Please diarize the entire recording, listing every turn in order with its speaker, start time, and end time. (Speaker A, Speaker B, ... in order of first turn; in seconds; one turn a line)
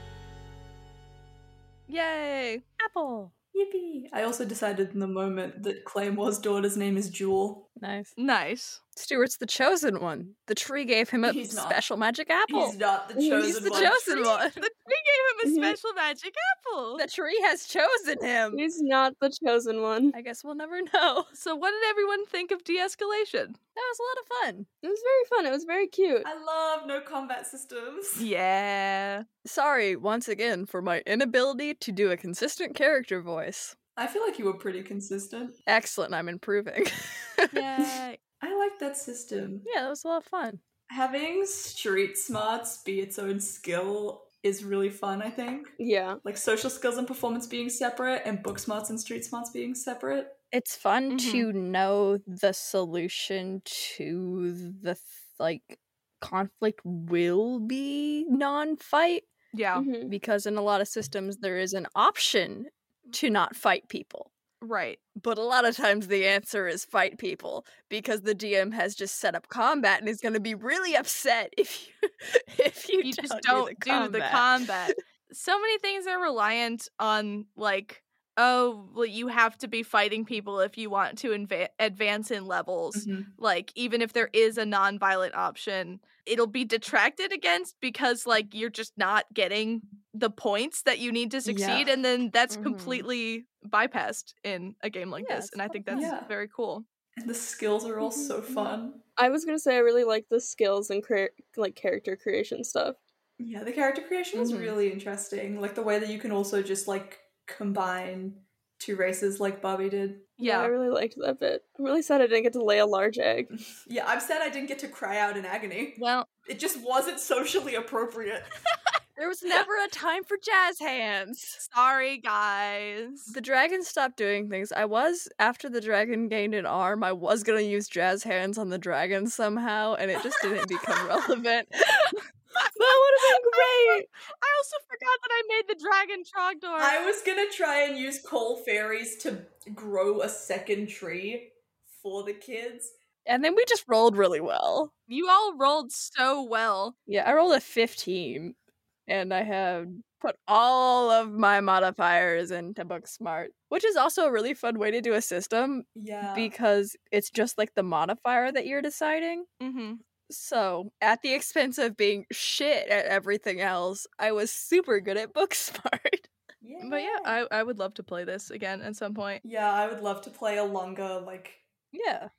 Speaker A: 1.9-2.6
Speaker B: 2.8-3.3
Speaker C: 3.5-7.7
Speaker B: 7.8-8.1
Speaker A: 8.2-8.8
Speaker B: 9.0-12.8
Speaker C: 11.2-11.9
Speaker C: 12.5-14.2
Speaker D: 13.2-13.7
Speaker B: 13.4-14.7
Speaker A: 13.8-17.1
Speaker D: 15.4-15.8
Speaker B: 17.0-18.6
Speaker D: 18.5-20.2
Speaker B: 20.1-21.3
Speaker A: 21.3-23.6
Speaker B: 23.8-24.7
Speaker D: 24.8-26.3
Speaker C: 26.2-28.3
Speaker A: 28.2-29.2
Speaker B: 29.4-33.8
Speaker C: 34.0-35.6
Speaker B: 35.7-37.6
Speaker A: 37.5-38.2
Speaker C: 38.4-39.7
Speaker B: 39.6-40.6
Speaker C: 40.9-50.4
Speaker D: 45.8-46.2
Speaker B: 50.5-59.3
Speaker A: 51.1-51.5
Speaker A: 59.5-59.9
Speaker D: 59.7-60.1
Speaker B: 60.1-64.3
Speaker A: 64.6-65.0
Speaker B: 65.2-75.0
Speaker A: 73.0-96.9
Speaker C: 82.9-83.3
Speaker B: 91.5-92.0
Speaker B: 92.5-93.1
Speaker B: 95.2-96.1
Speaker C: 95.9-96.3
Speaker C: 97.2-99.0
Speaker D: 98.0-103.0
Speaker C: 103.4-110.3
Speaker B: 104.3-104.8
Speaker A: 110.4-110.7
Speaker D: 110.4-113.5
Speaker C: 113.6-118.6
Speaker A: 116.0-116.3
Speaker B: 119.2-121.6
Speaker A: 121.6-123.3
Speaker B: 123.3-132.2
Speaker D: 132.8-134.1
Speaker A: 133.4-137.0
Speaker C: 136.8-142.9
Speaker B: 143.3-144.9
Speaker A: 145.1-146.9
Speaker B: 147.1-148.6
Speaker B: 149.1-159.5
Speaker C: 155.9-156.5
Speaker A: 159.6-160.0
Speaker B: 160.3-166.3
Speaker C: 166.6-167.3
Speaker A: 166.8-169.4
Speaker C: 169.4-171.6
Speaker B: 171.9-172.3